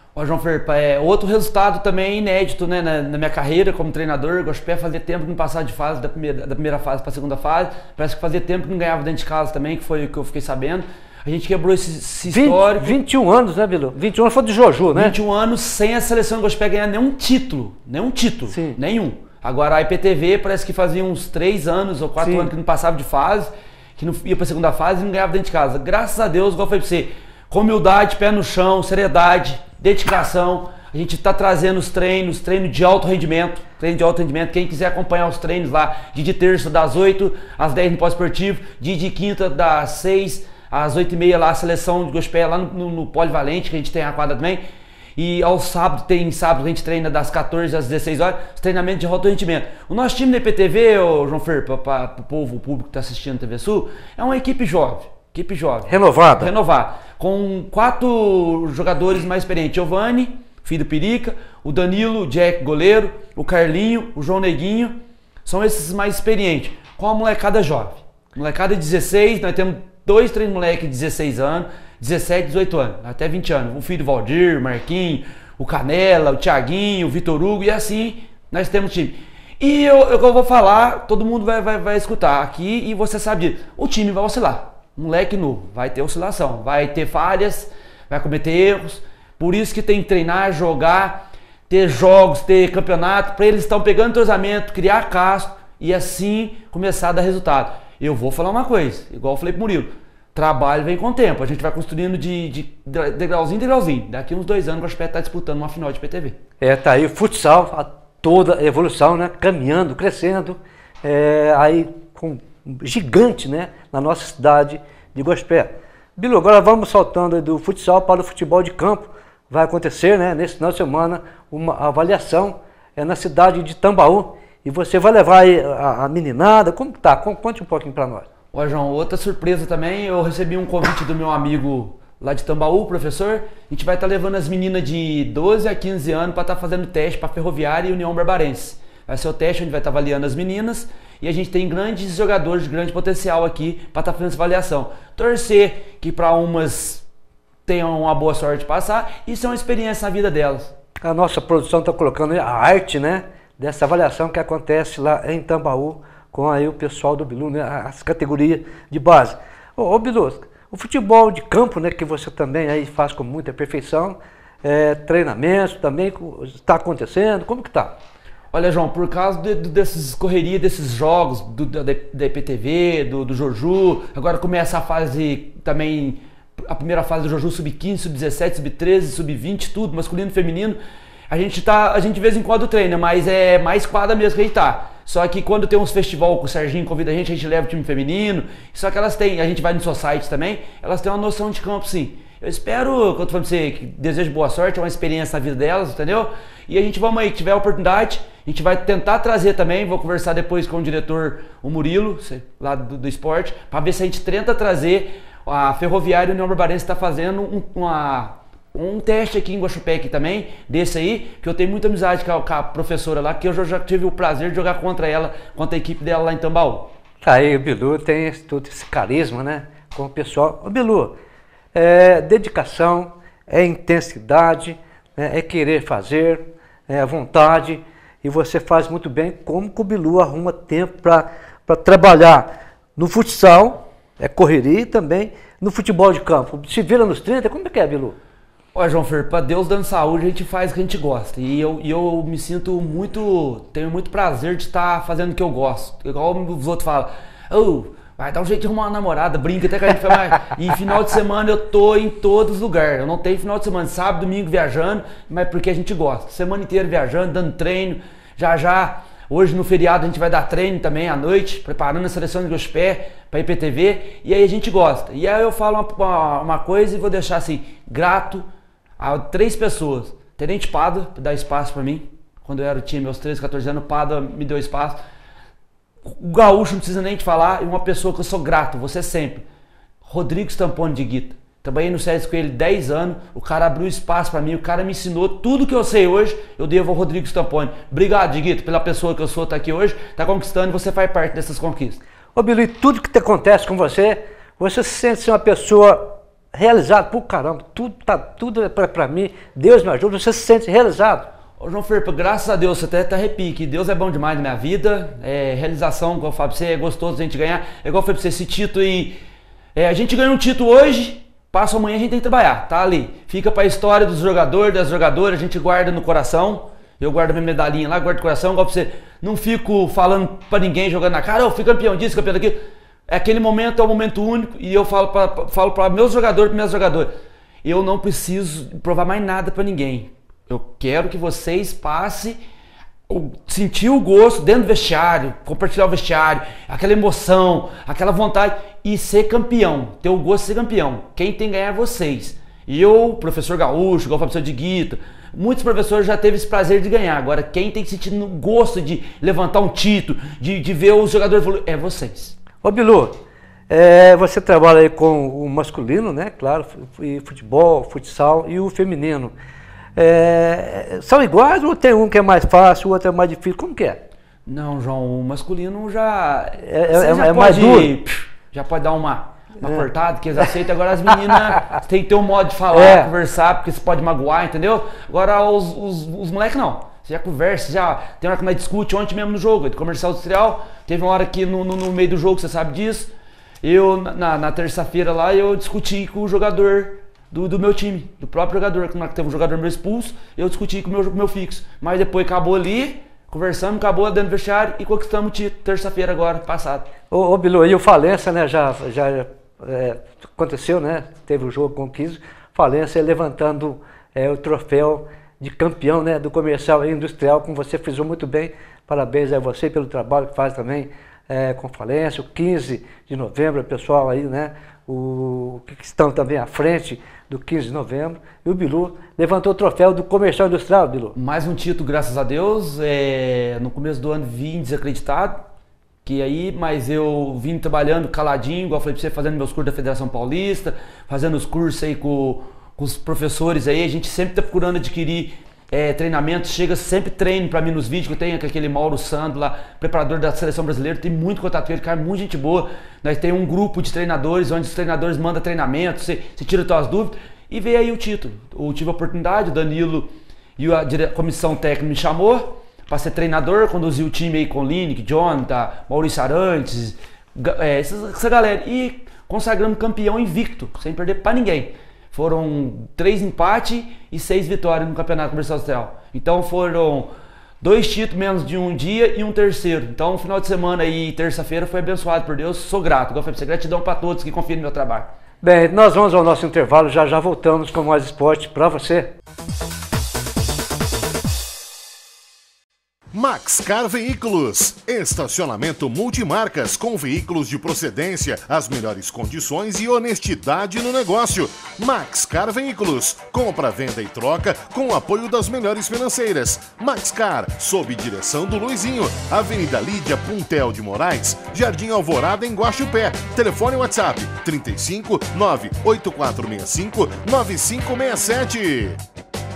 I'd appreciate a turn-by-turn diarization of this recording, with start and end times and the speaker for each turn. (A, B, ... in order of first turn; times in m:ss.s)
0:00.1-0:13.0 A
0:12.2-0:15.2 B
0:14.9-0:44.6 A
0:18.5-0:18.8 B
0:22.2-0:22.5 B
0:45.2-1:46.4 A
0:55.9-0:56.5 B
1:46.6-2:08.3 B
2:08.5-2:27.0 A
2:27.6-2:30.7 A
2:31.0-2:47.9 B
2:48.5-3:00.8 A
3:01.3-3:36.9 A
3:37.2-3:41.2 B
3:41.7-3:58.2 B
3:58.7-4:28.4 A
4:29.0-4:35.0 A
4:36.0-4:39.4 A
4:40.0-4:52.0 A
4:52.3-5:01.3 B
5:01.6-5:09.2 A
5:09.7-5:27.1 A
5:27.6-5:32.4 A
5:33.1-5:52.4 A
5:52.6-5:59.3 B
6:00.0-6:04.0 B
6:04.4-6:23.1 A
6:06.6-6:07.9 B
6:09.6-6:09.8 B
6:12.7-6:13.1 B
6:23.6-6:36.9 A
6:37.1-7:01.1 B
7:01.1-7:05.4 A
7:06.0-7:55.1 A
7:55.4-7:59.1 B
8:03.1-8:29.0 C